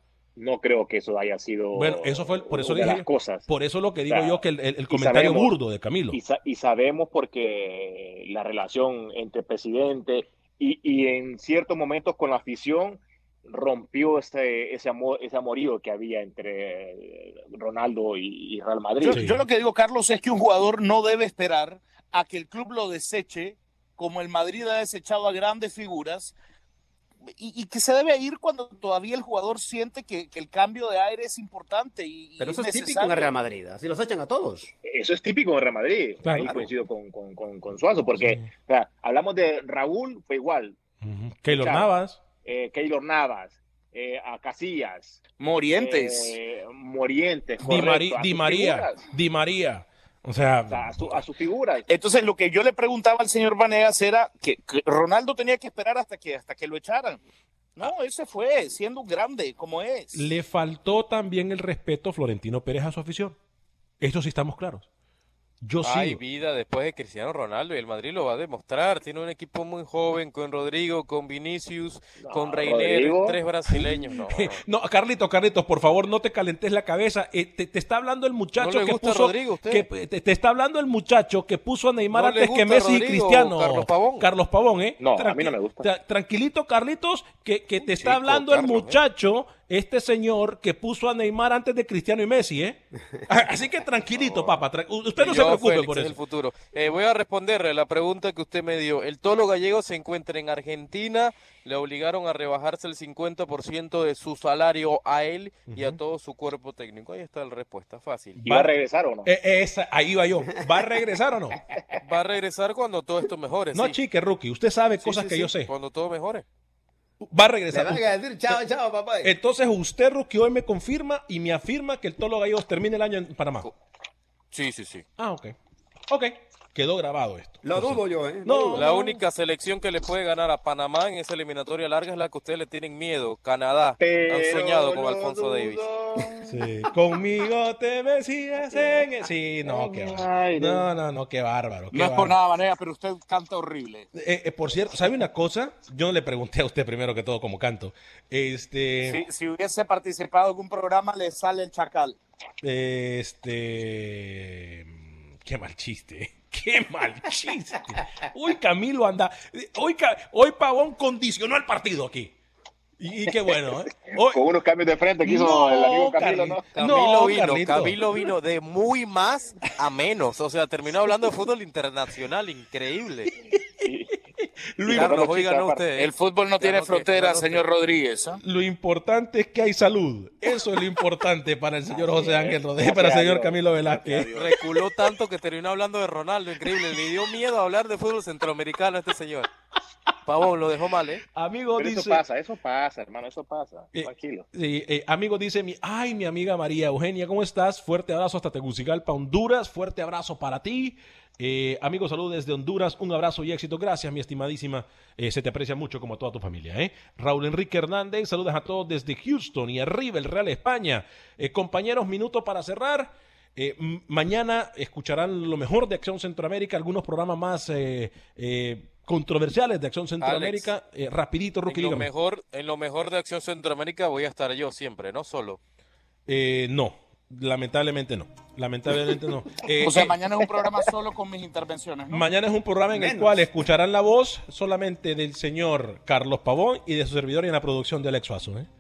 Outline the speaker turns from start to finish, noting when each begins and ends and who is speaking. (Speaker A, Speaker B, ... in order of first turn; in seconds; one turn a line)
Speaker A: 0.4-3.5
Speaker B: 1.7-6.2
Speaker A: 4.1-5.5
Speaker A: 6.1-19.2
Speaker C: 19.0-26.4
Speaker B: 19.1-19.4
Speaker C: 27.4-33.4
Speaker D: 32.4-34.7
Speaker A: 34.8-40.8
Speaker B: 36.2-36.7
Speaker B: 38.2-38.5
Speaker B: 41.0-42.2
Speaker A: 41.5-41.9
Speaker A: 42.5-49.1
Speaker C: 45.4-46.4
Speaker B: 47.6-51.2
Speaker A: 50.7-51.9
Speaker C: 51.9-57.2
Speaker C: 57.8-60.3
Speaker B: 60.1-63.4
Speaker B: 64.0-64.9
Speaker B: 65.6-66.2
Speaker E: 65.8-74.6
Speaker A: 72.2-73.4
Speaker B: 73.7-96.2
Speaker E: 78.6-79.9
Speaker E: 82.1-84.3
Speaker A: 85.0-85.9
Speaker E: 95.2-108.4
Speaker B: 105.7-106.0
Speaker B: 108.4-108.7
Speaker A: 108.5-109.3
Speaker B: 109.2-111.6
Speaker E: 112.0-114.0
Speaker B: 113.7-115.7
Speaker E: 115.0-116.5
Speaker B: 117.2-118.6
Speaker D: 117.7-119.3
Speaker B: 119.2-123.7
Speaker E: 124.5-125.0
Speaker B: 125.2-125.6
Speaker B: 126.1-129.2
Speaker D: 127.6-128.9
Speaker E: 128.7-135.8
Speaker A: 134.0-136.6
Speaker B: 136.4-142.4
Speaker A: 138.6-139.1
Speaker A: 139.6-140.9
Speaker C: 141.9-144.1
Speaker B: 144.1-149.2
Speaker C: 149.0-152.2
Speaker B: 152.6-162.3
Speaker B: 163.0-164.4
Speaker A: 163.4-167.0
Speaker B: 165.2-168.0
Speaker E: 166.8-173.3
Speaker B: 173.5-173.8
Speaker A: 173.8-174.2
Speaker B: 174.4-175.1
Speaker A: 174.9-175.9
Speaker E: 174.9-177.6
Speaker C: 176.0-178.4
Speaker B: 178.4-184.3
Speaker A: 181.9-184.6
Speaker E: 184.3-189.5
Speaker E: 190.3-191.2
Speaker B: 191.3-192.2
Speaker A: 191.8-194.5
Speaker B: 193.9-222.1
Speaker E: 220.2-220.7
Speaker E: 221.7-225.6
Speaker B: 226.3-230.2
Speaker C: 229.8-232.3
Speaker B: 232.1-238.7
Speaker D: 232.9-233.5